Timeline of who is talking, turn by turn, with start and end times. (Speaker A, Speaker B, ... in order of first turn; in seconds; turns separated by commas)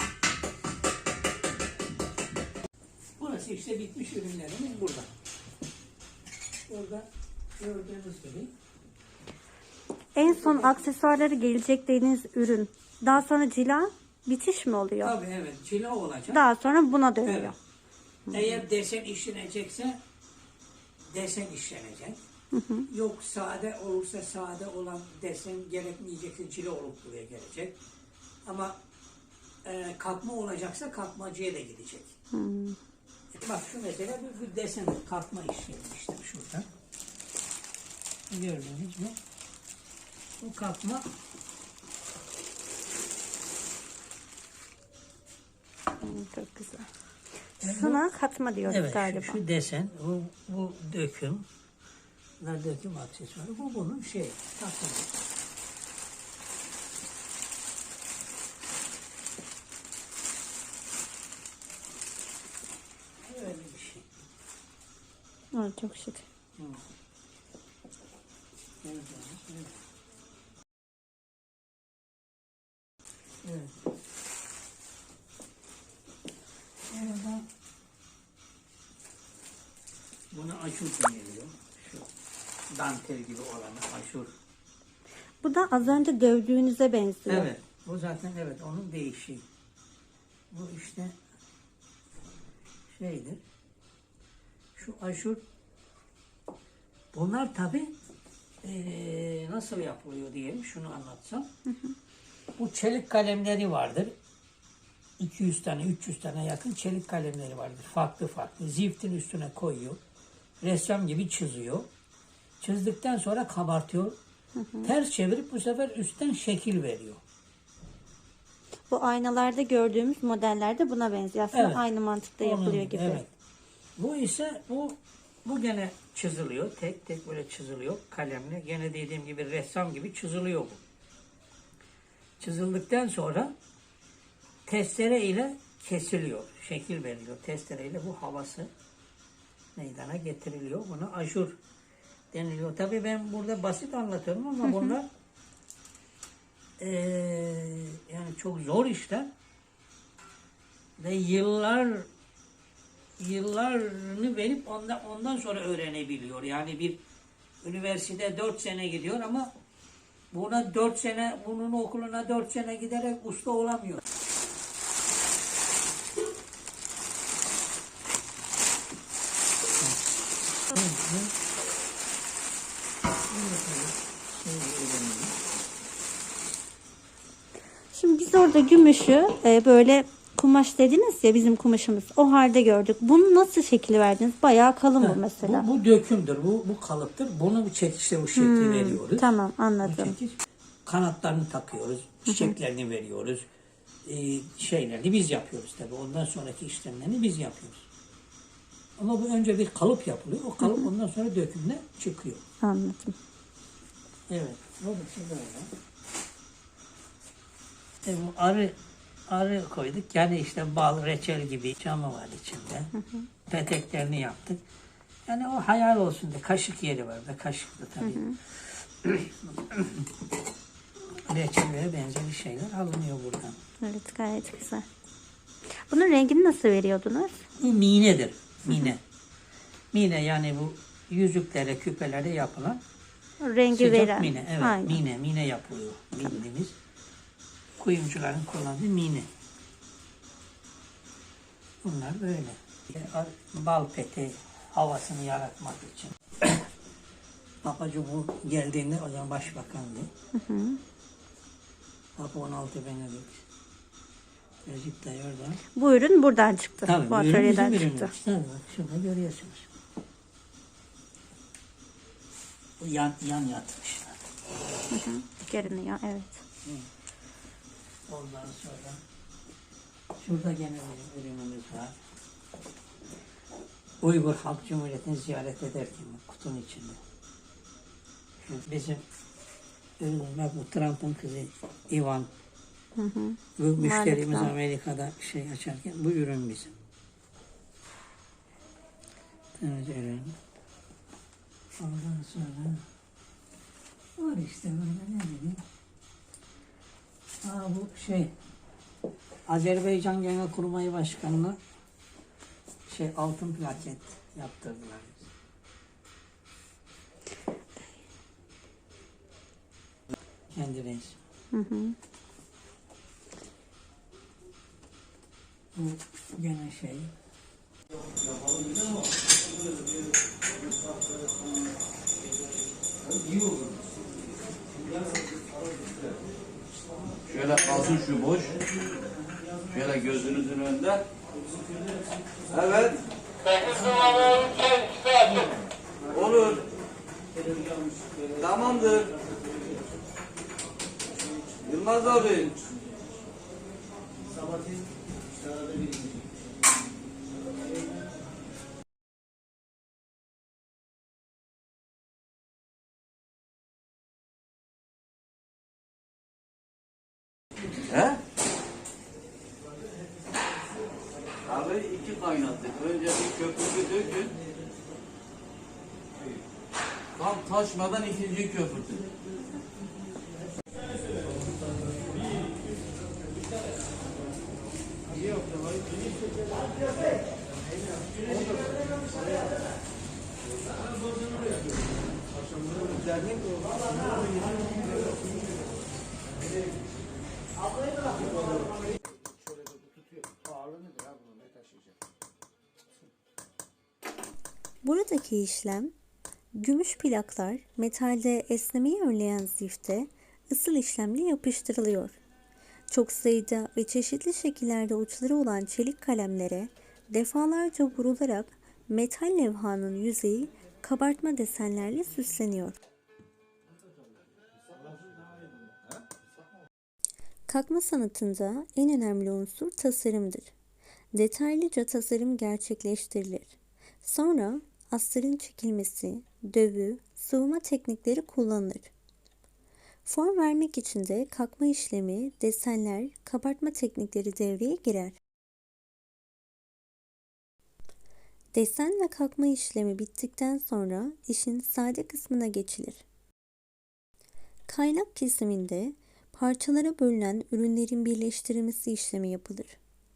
Speaker A: 3.2-5.1, Speaker A: 6.7-8.5, Speaker B: 10.1-15.1, Speaker A: 10.2-10.8, Speaker A: 15.0-16.4, Speaker B: 16.3-17.5, Speaker A: 17.2-17.6, Speaker A: 18.3-20.0, Speaker A: 21.1-22.2, Speaker B: 22.5-22.9, Speaker A: 22.9-27.8, Speaker A: 28.4-28.8, Speaker A: 29.6-32.2, Speaker B: 32.3-32.8, Speaker A: 33.3-36.7, Speaker A: 38.3-39.2, Speaker A: 40.4-41.1, Speaker B: 46.0-46.9, Speaker A: 47.6-48.1, Speaker B: 47.6-49.4, Speaker A: 48.6-51.4, Speaker A: 52.4-55.1, Speaker A: 63.2-64.0, Speaker B: 65.5-66.2, Speaker A: 66.6-66.8, Speaker A: 68.8-69.8, Speaker A: 73.4-73.7, Speaker A: 76.9-77.5, Speaker A: 80.3-82.1, Speaker A: 82.7-84.3, Speaker B: 85.4-87.5, Speaker A: 87.3-89.4, Speaker A: 90.5-91.2, Speaker A: 92.9-93.4, Speaker A: 94.8-95.4, Speaker A: 97.1-97.9, Speaker A: 98.6-101.5, Speaker B: 101.7-101.9, Speaker A: 102.5-104.1, Speaker A: 105.2-110.0, Speaker A: 110.6-111.9, Speaker A: 112.6-114.2, Speaker B: 114.6-114.9, Speaker A: 114.8-117.2, Speaker B: 118.9-123.2, Speaker A: 121.5-121.9, Speaker A: 122.4-123.3, Speaker A: 124.0-130.8, Speaker A: 132.4-133.5, Speaker A: 134.7-138.7, Speaker A: 139.7-141.6, Speaker A: 142.3-145.1, Speaker B: 144.6-145.0, Speaker A: 146.8-149.3, Speaker A: 151.0-152.1, Speaker A: 153.2-157.0, Speaker A: 157.6-159.5, Speaker A: 160.3-164.0, Speaker A: 170.7-171.3, Speaker A: 173.3-175.3, Speaker B: 177.9-185.7, Speaker A: 185.0-189.2, Speaker B: 188.3-190.1, Speaker A: 189.8-193.5, Speaker B: 192.2-192.5, Speaker A: 194.0-197.9, Speaker A: 199.0-202.4, Speaker B: 200.6-200.9, Speaker B: 202.6-203.2, Speaker A: 204.3-205.7, Speaker A: 208.0-208.7, Speaker A: 209.3-212.9, Speaker A: 213.5-214.6, Speaker A: 215.2-220.1, Speaker B: 218.0-218.4, Speaker A: 221.2-223.6, Speaker B: 223.8-224.8, Speaker B: 225.8-227.4, Speaker A: 227.6-229.0, Speaker B: 228.7-228.9, Speaker A: 229.9-232.8, Speaker B: 233.4-235.0, Speaker A: 233.7-236.8, Speaker A: 237.8-239.3, Speaker A: 241.8-246.6, Speaker A: 247.6-250.1, Speaker B: 250.3-250.8, Speaker A: 252.2-253.4, Speaker A: 254.6-255.6, Speaker B: 255.7-258.1, Speaker A: 256.8-259.7, Speaker A: 262.8-264.2, Speaker B: 264.9-266.4, Speaker A: 268.1-269.0, Speaker A: 270.2-272.0, Speaker A: 274.0-277.0, Speaker A: 278.4-279.0, Speaker A: 280.0-282.3, Speaker B: 282.9-284.5, Speaker A: 283.6-286.7, Speaker A: 289.6-290.3, Speaker A: 291.8-292.8, Speaker A: 294.2-295.6, Speaker A: 297.4-298.3, Speaker A: 299.5-301.6, Speaker A: 302.9-305.3, Speaker A: 310.5-311.2, Speaker B: 311.5-312.0, Speaker A: 315.7-317.1, Speaker C: 327.4-328.5, Speaker C: 329.8-331.0, Speaker C: 332.5-333.0, Speaker C: 336.2-336.6, Speaker C: 338.3-339.1, Speaker C: 341.6-342.5, Speaker C: 361.6-364.3, Speaker C: 367.2-369.0, Speaker B: 394.8-395.9, Speaker B: 396.5-402.2, Speaker B: 402.9-412.8, Speaker B: 417.5-420.5, Speaker B: 421.1-428.9, Speaker B: 430.0-435.2, Speaker B: 438.5-443.0, Speaker B: 444.7-449.8